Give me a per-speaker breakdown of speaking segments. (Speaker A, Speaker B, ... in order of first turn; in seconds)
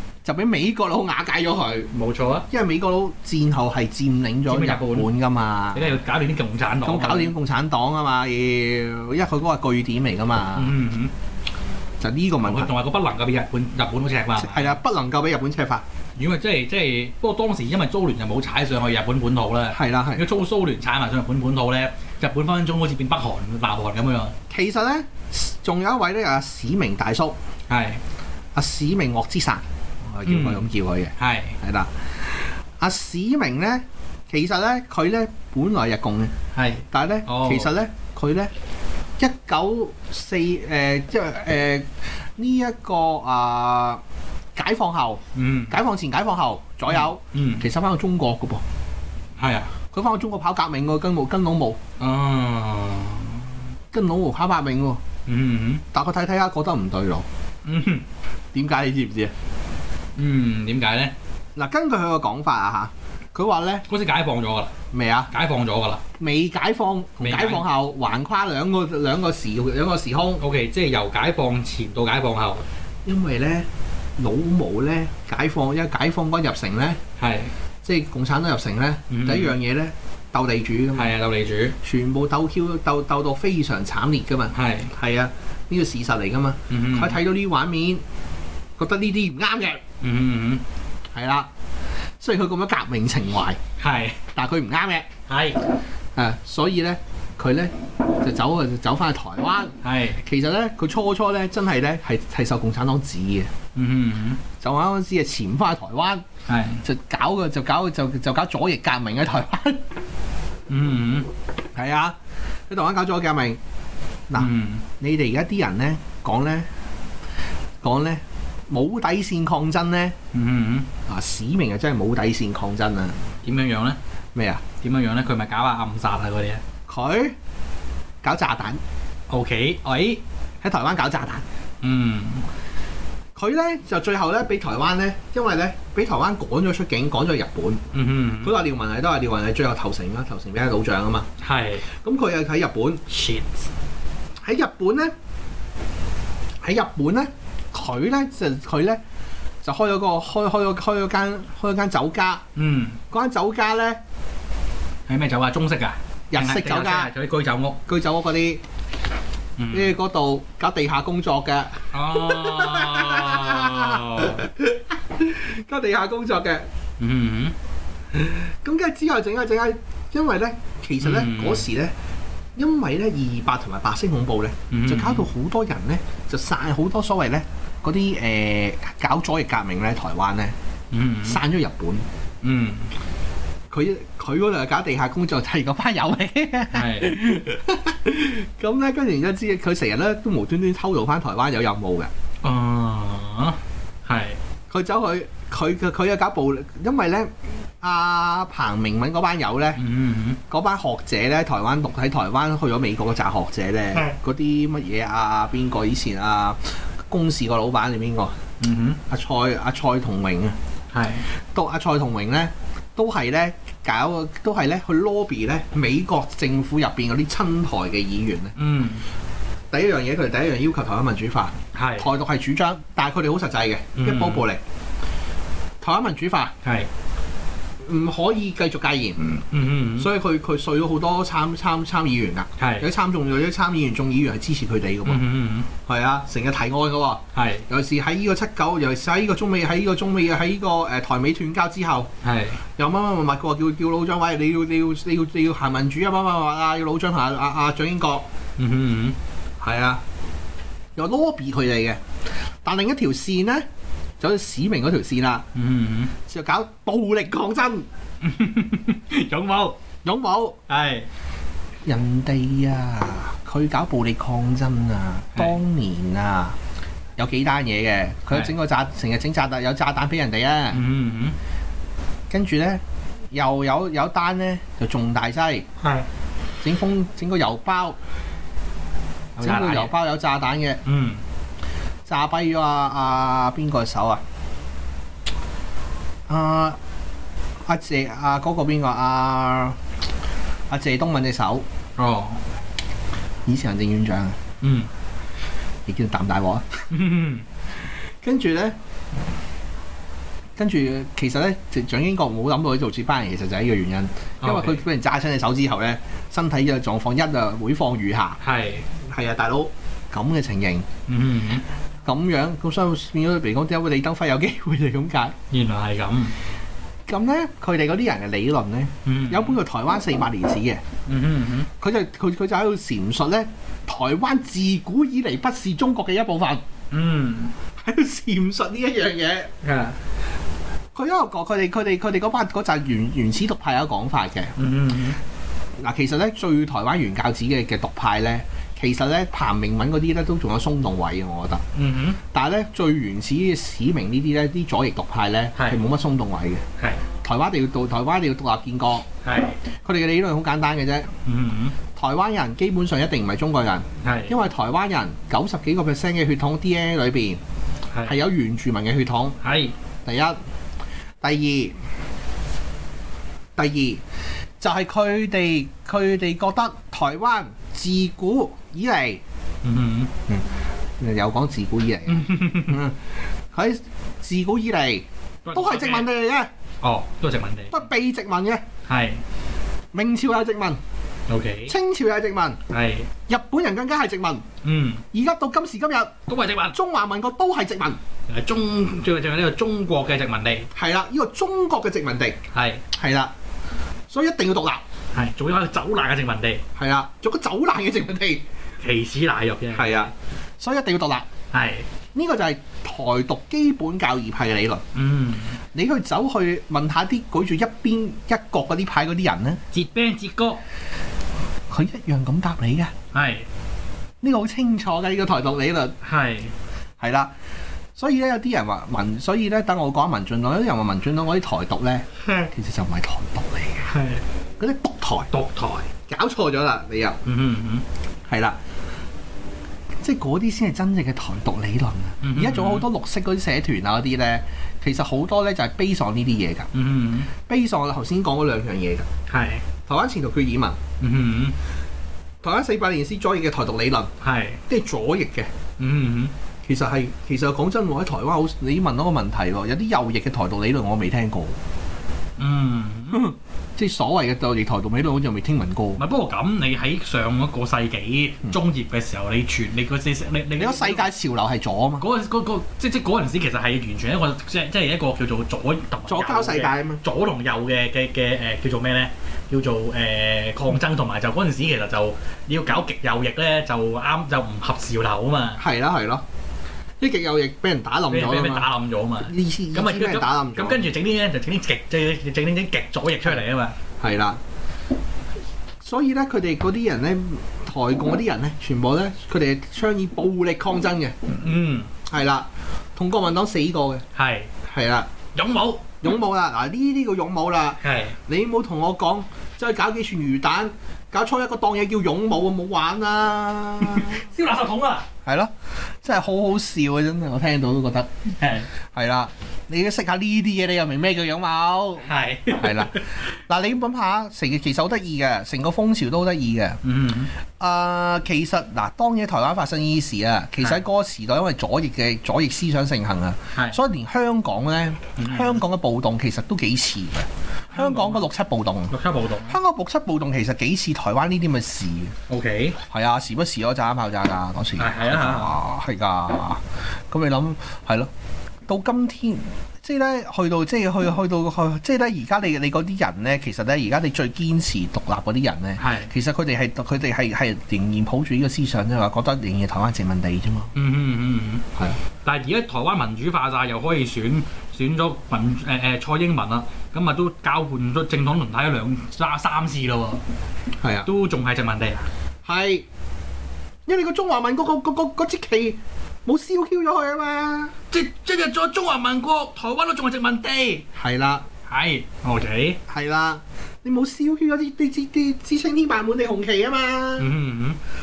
Speaker A: 0.2-1.9, 2.5-6.0, 6.8-10.8, 12.0-12.7, 14.4-15.8, 19.7-20.2, 24.5-27.4, 28.6-36.3, 36.9-38.5, 39.2-44.0, 44.5-48.6, 49.9-51.8, 53.9-55.0, 55.9-57.2, 58.5-59.3, 61.6-63.9, 64.9-65.3, 66.2-70.4, 73.0-73.7, 74.2-77.0, 77.8-81.1, 81.8-88.0, 88.8-89.8, 91.1-91.5, 92.2-93.6, 94.3-95.1, 96.2-103.5, 104.6-106.2, 106.8-109.8, 111.8-112.2, 112.7-113.6, 115.0-116.7, 117.8-120.2, 121.1-123.2, 124.3-124.6, 126.9-127.4, 128.2-128.8, 130.6-131.4, 133.4-137.8, 138.4-141.3, 142.0-143.0, 144.4-145.1, 146.6-149.0, 149.6-152.4, 153.1-154.0, 156.3-157.1, 157.9-158.6, 159.7-166.7, 168.1-171.9, 172.6-180.6, 181.2-182.1, 183.7-192.1, 194.7-199.8, 200.5-208.4, 209.1-210.6, 211.5-218.5, 219.7-224.6, 225.8-226.5, 227.8-229.4, 230.0-235.2, 235.9-242.1, 242.8-248.2, 249.6-250.0, 251.0-252.0, 252.6-253.7, 254.2-255.5, 256.3-257.9, 260.0-260.6, 261.9-266.6, 267.2-270.8, 272.3-275.7, 276.6-278.0, 279.4-280.8, 282.1-284.2, 286.3-286.8, 287.7-289.8, 290.7-291.6, 293.5-294.4, 295.9-296.8, 298.2-298.8, 300.6-308.4, 309.0-310.9, 312.1-315.4, 317.1-320.8, 321.8-326.6, 327.8-329.5, 330.9-334.5, 335.8-341.6, 342.3-346.6, 347.2-349.1, 349.8-351.1, 352.0-357.4, 358.1-359.4, 360.1-360.4, 361.2-361.8, 363.6-364.0, 364.6-369.2, 370.3-376.5, 377.7-378.6, 379.9-380.8, 381.7-382.6, 383.3-384.4, 385.1-386.1, 386.7-388.0, 390.8-392.4, 392.9-393.3, 394.1-394.8, 396.8-398.4, 399.7-401.3, 402.1-404.8, 405.7-409.6, 411.7-412.9, 414.2-415.9, 417.0-417.3, 418.0-423.9, 424.6-425.3, 426.1-427.2, 428.3-428.6, 430.0-436.7, 437.4-439.1, 439.9-440.8, 442.4-444.1, 444.7-445.5, 446.6-451.6, 453.1-456.0, 460.6-462.1, 466.1-467.0, 475.6-476.2, 477.0-478.7, 479.2-480.8, 484.0-484.4, 485.8-491.1, 492.1-494.0, 494.6-495.1, 496.0-504.1, 505.2-508.1, 508.9-516.8, 517.6-528.9, 529.5-532.1, 532.9-538.1, 538.7-550.7, 560.8-561.1, 562.5-562.9, 563.9-567.7, 571.0-571.5, 572.9-577.3
Speaker B: 1.9-2.5, 4.5-5.1, 5.7-7.3, 10.6-11.1, 12.4-14.8, 16.2-24.4, 27.7-28.0, 30.3-30.7, 31.2-31.6, 36.5-37.7, 45.4-45.8, 46.9-47.7, 49.4-49.7, 52.0-53.5, 55.3-55.8, 57.6-58.0, 60.2-61.1, 63.9-64.7, 65.3-66.0, 67.2-67.7, 70.4-72.6, 77.2-77.5, 79.1-79.6, 80.9-81.8, 84.5-84.9, 86.7-87.2, 90.0-90.6, 93.8-94.2, 95.3-95.6, 99.8-100.2, 103.8-104.4, 106.5-106.8, 110.7-111.3, 114.4-114.9, 120.3-120.9, 123.4-124.0, 124.8-126.6, 129.3-130.2, 131.8-132.4, 137.9-138.6, 141.4-141.9, 143.1-143.7, 152.6-153.0, 155.1-157.8, 159.6-159.9, 161.9-164.5, 167.0-167.6, 171.0-171.7, 174.7-175.3, 180.9-181.4, 182.4-182.9, 186.7-187.2, 192.4-194.4, 199.8-200.4, 208.6-209.0, 210.9-211.2, 218.6-219.1, 221.7-222.1, 224.0-224.5, 226.6-226.9, 229.4-230.1, 232.6-232.9, 235.1-235.7, 237.3-237.7, 242.2-242.6, 248.6-249.2, 255.5-256.1, 258.2-259.8, 260.7-261.1, 270.7-271.4, 279.4-279.9, 280.9-281.2, 292.0-292.4, 294.6-294.9, 296.9-297.4, 304.4-304.8, 308.4-308.9, 311.1-311.6, 315.5-316.3, 319.1-319.6, 321.1-321.7, 326.9-327.5, 329.6-330.0, 334.6-335.2, 341.7-342.2, 345.6-345.8, 349.2-349.6, 351.3-351.8, 354.0-354.4, 357.9-358.2, 359.4-359.7, 369.6-370.1, 372.1-372.8, 375.4-376.1, 376.8-377.9, 378.9-379.2, 381.3-381.7, 382.7-383.1, 384.6-385.0, 386.3-386.8, 388.3-390.7, 392.5-392.8, 395.1-396.6, 398.8-400.1, 401.5-401.9, 404.9-405.6, 409.7-410.6, 413.1-413.5, 416.0-416.5, 423.9-424.2, 425.3-425.9, 427.2-427.8, 432.2-432.9, 436.7-437.3, 439.3-439.6, 441.0-441.6, 444.2-444.6, 445.8-446.3, 452.4-453.2, 456.0-461.1, 462.0-475.6, 478.1-483.8, 491.3-491.9, 494.1-494.5, 495.3-496.0, 497.8-498.2, 503.9-505.1, 508.4-508.7, 512.0-513.2, 516.8-517.3, 523.5-523.8, 525.2-525.6, 527.7-528.3, 528.9-529.6, 532.3-532.8, 534.8-535.6, 545.8-546.1, 550.8-551.7, 552.2-560.2, 561.0-562.1, 567.9-570.9, 571.7-572.8, 577.2-577.8